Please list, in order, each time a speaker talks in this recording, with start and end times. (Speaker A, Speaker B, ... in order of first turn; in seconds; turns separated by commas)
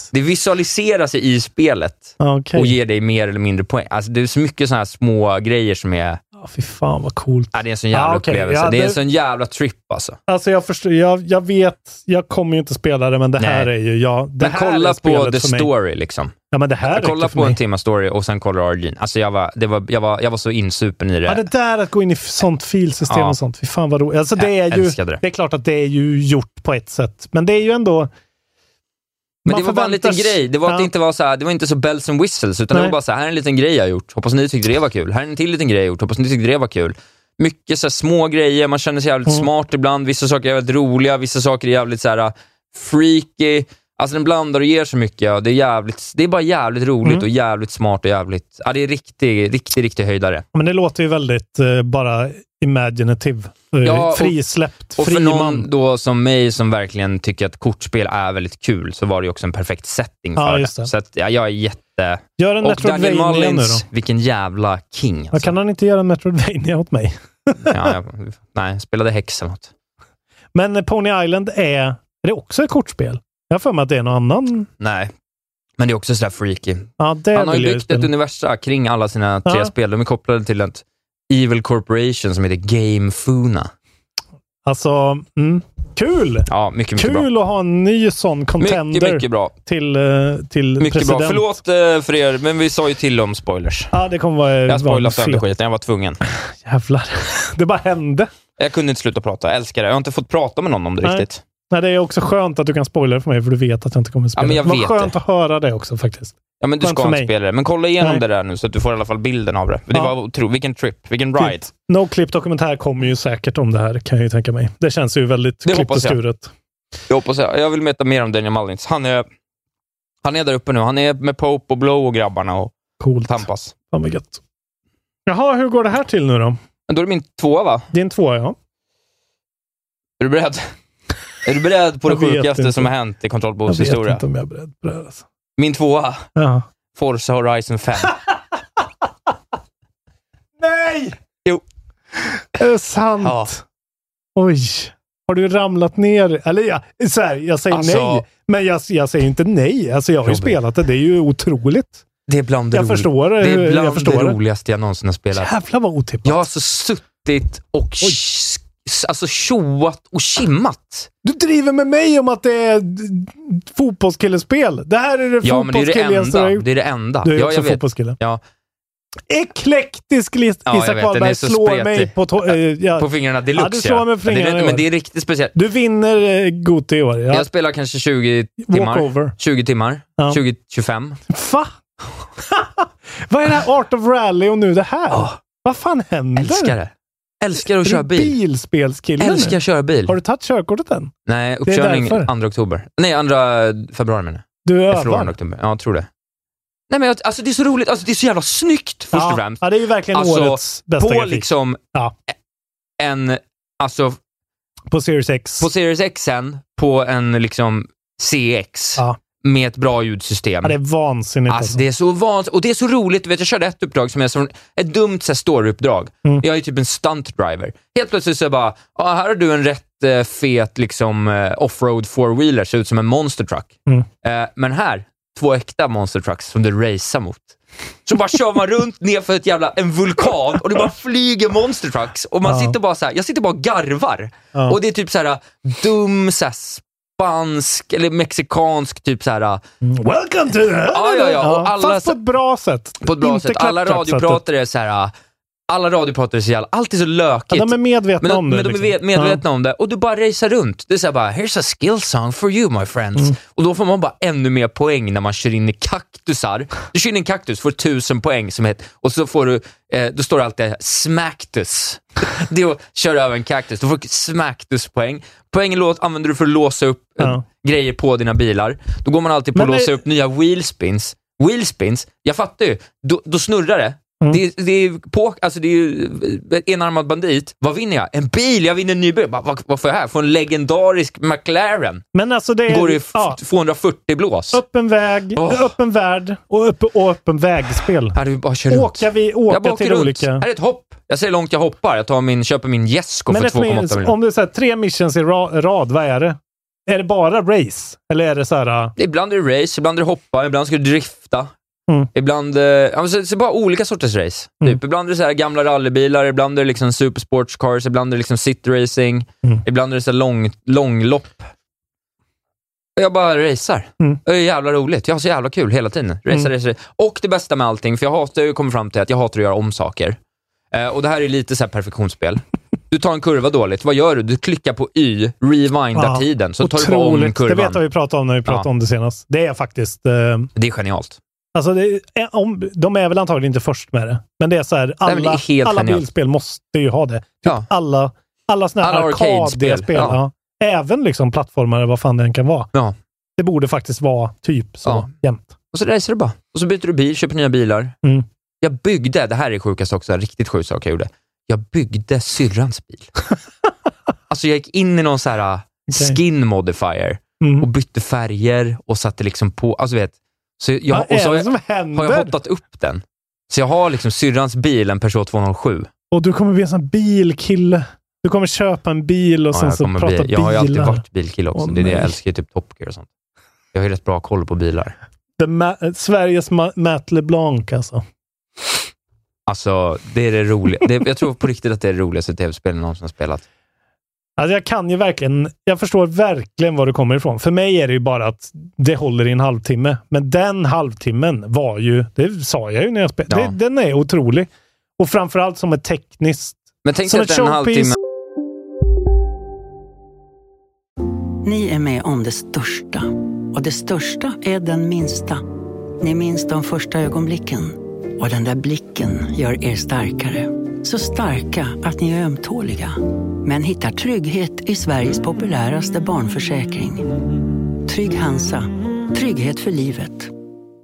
Speaker A: 0.1-6.2, Speaker B: 2.2-2.8, Speaker B: 6.4-9.0, Speaker A: 7.5-10.2, Speaker B: 10.3-15.7, Speaker A: 13.4-13.7, Speaker A: 14.4-16.3, Speaker B: 16.5-17.6, Speaker A: 16.9-21.4, Speaker B: 21.2-28.1, Speaker A: 23.1-23.4, Speaker A: 24.4-25.2, Speaker B: 29.4-30.9, Speaker A: 29.4-50.4, Speaker B: 50.5-55.7, Speaker A: 53.8-54.4, Speaker A: 55.0-65.5, Speaker B: 60.4-60.9, Speaker B: 62.4-63.8, Speaker B: 65.3-67.9, Speaker A: 67.7-69.7, Speaker B: 70.5-74.7, Speaker A: 74.8-75.1, Speaker A: 75.8-83.7, Speaker B: 77.0-78.1, Speaker B: 79.4-79.7, Speaker B: 84.6-91.5, Speaker A: 86.5-87.3, Speaker A: 88.6-89.5, Speaker A: 90.8-93.9, Speaker B: 93.9-95.4, Speaker A: 94.7-96.2, Speaker B: 96.5-98.3, Speaker A: 98.6-101.4, Speaker B: 101.0-107.3, Speaker A: 104.3-105.1, Speaker A: 106.6-111.7, Speaker B: 111.4-116.5, Speaker A: 115.7-116.2, Speaker A: 117.1-119.2, Speaker A: 120.2-122.7, Speaker B: 123.0-124.4, Speaker A: 123.3-123.7, Speaker B: 125.2-126.6, Speaker A: 126.9-127.9, Speaker B: 127.9-128.6, Speaker A: 130.2-130.7, Speaker A: 131.4-134.2, Speaker B: 132.1-132.9, Speaker B: 133.7-135.2, Speaker A: 135.6-136.2, Speaker B: 136.3-136.7, Speaker A: 136.9-138.2, Speaker B: 140.6-141.2, Speaker B: 142.3-143.6, Speaker A: 143.2-143.5, Speaker B: 144.3-152.0, Speaker A: 147.7-148.2, Speaker A: 150.2-150.6, Speaker A: 152.3-155.5, Speaker B: 152.7-154.4, Speaker B: 155.3-156.4, Speaker A: 156.2-161.1, Speaker B: 161.2-166.7, Speaker A: 165.4-168.4, Speaker B: 167.2-168.2, Speaker B: 169.3-174.8, Speaker A: 170.7-175.5, Speaker B: 175.5-177.5, Speaker A: 177.3-181.2, Speaker B: 178.7-179.3, Speaker B: 181.3-181.8, Speaker B: 182.4-186.7, Speaker A: 185.1-185.4, Speaker A: 186.4-188.3, Speaker B: 187.8-191.1, Speaker A: 189.2-190.2, Speaker A: 191.3-196.1, Speaker B: 191.7-192.3, Speaker B: 194.6-195.3, Speaker A: 196.9-201.8, Speaker B: 199.1-202.1, Speaker A: 203.0-204.2, Speaker B: 204.9-205.7, Speaker A: 205.6-210.8, Speaker B: 210.6-211.8, Speaker A: 211.5-223.7, Speaker A: 224.2-239.6, Speaker B: 232.4-232.7, Speaker B: 239.8-244.4, Speaker A: 240.9-242.2, Speaker A: 243.0-245.1, Speaker A: 245.7-282.0, Speaker B: 247.5-249.4, Speaker B: 269.5-269.9, Speaker B: 282.1-283.4, Speaker A: 282.7-284.6, Speaker B: 284.5-288.2, Speaker A: 285.3-285.7, Speaker A: 288.1-294.1, Speaker B: 288.7-290.4, Speaker B: 293.3-298.9, Speaker A: 299.0-301.5, Speaker A: 302.1-311.5, Speaker A: 313.0-320.2, Speaker A: 320.7-327.8, Speaker B: 325.9-330.5, Speaker A: 330.6-331.2, Speaker B: 331.5-342.7, Speaker A: 335.0-336.0, Speaker A: 338.8-340.2, Speaker B: 343.4-345.5, Speaker A: 345.7-347.9, Speaker A: 348.6-353.1, Speaker A: 354.3-365.9, Speaker B: 355.9-356.2, Speaker B: 357.4-357.7, Speaker B: 360.9-362.3, Speaker B: 366.1-371.0, Speaker A: 369.5-373.1, Speaker B: 371.5-372.1, Speaker A: 373.7-374.9, Speaker B: 375.4-378.0, Speaker A: 379.5-383.4, Speaker B: 384.4-397.9, Speaker A: 393.3-393.5, Speaker A: 396.8-397.9, Speaker C: 401.4-405.4, Speaker C: 406.0-417.0, Speaker C: 417.8-420.3